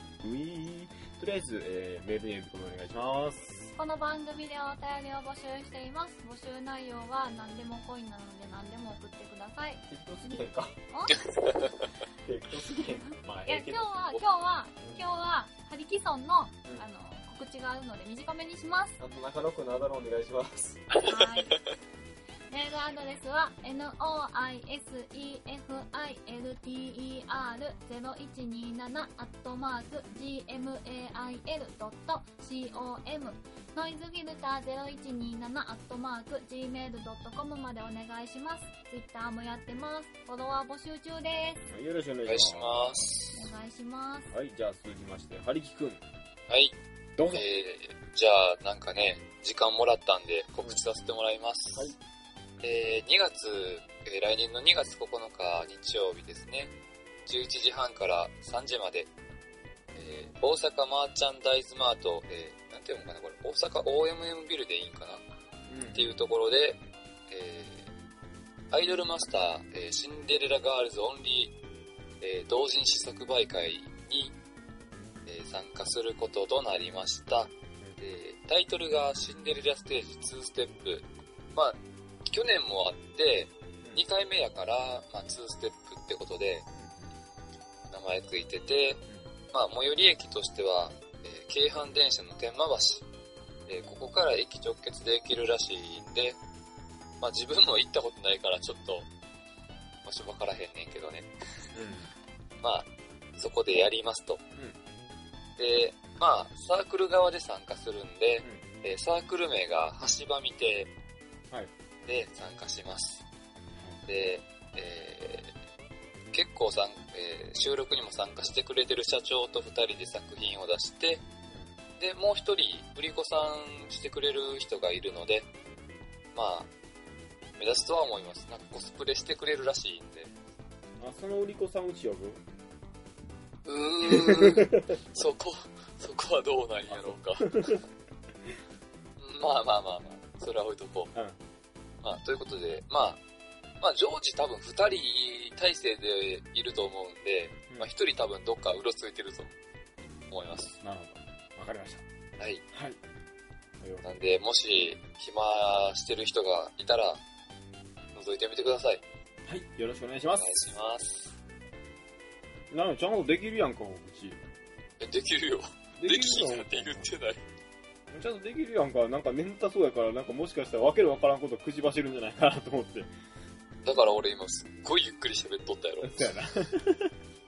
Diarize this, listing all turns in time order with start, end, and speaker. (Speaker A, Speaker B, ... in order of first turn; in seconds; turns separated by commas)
Speaker A: 0.2-3.7, Speaker B: 3.8-9.8, Speaker A: 9.9-10.8, Speaker B: 10.9-11.2, Speaker C: 11.2-11.8, Speaker A: 12.2-13.9, Speaker B: 12.8-19.0, Speaker A: 19.0-20.8, Speaker C: 20.9-21.6, Speaker B: 21.0-21.6, Speaker B: 22.5-41.6, Speaker A: 41.7-43.0, Speaker C: 42.2-43.5, Speaker B: 43.3-44.3, Speaker A: 44.3-46.0, Speaker C: 46.5-46.8, Speaker A: 47.2-47.4, Speaker C: 47.3-51.9, Speaker C: 52.6-56.7, Speaker C: 57.2-59.1, Speaker C: 59.9-65.2, Speaker A: 65.7-66.2, Speaker C: 65.9-67.9, Speaker C: 68.7-71.5, Speaker C: 72.2-74.3, Speaker C: 75.2-86.7, Speaker A: 86.7-87.1, Speaker C: 87.9-93.0, Speaker A: 89.1-89.3, Speaker C: 93.7-96.4, Speaker C: 97.2-99.1, Speaker C: 100.0-101.3, Speaker A: 101.7-102.1, Speaker C: 102.6-104.4, Speaker C: 105.6-110.9, Speaker A: 108.4-108.7, Speaker C: 112.0-113.2, Speaker A: 113.8-114.0, Speaker C: 114.0-115.5, Speaker C: 116.3-121.2, Speaker A: 121.5-121.8, Speaker C: 122.0-125.5, Speaker C: 126.3-126.7, Speaker C: 127.6-130.3, Speaker A: 131.0-132.4, Speaker C: 133.6-137.8, Speaker A: 134.0-134.9, Speaker A: 136.9-137.8, Speaker C: 139.2-141.1, Speaker A: 141.1-141.4, Speaker C: 142.0-143.2, Speaker C: 143.8-149.5, Speaker C: 150.3-150.8, Speaker A: 150.8-152.0, Speaker C: 152.4-152.6, Speaker A: 152.7-153.0, Speaker A: 153.8-154.1, Speaker C: 154.0-157.2, Speaker C: 158.1-159.0, Speaker A: 159.5-160.7, Speaker C: 160.4-161.3, Speaker A: 162.7-164.4, Speaker C: 165.0-167.4, Speaker A: 166.0-167.1, Speaker A: 168.1-173.1, Speaker C: 173.8-176.3, Speaker A: 176.0-177.1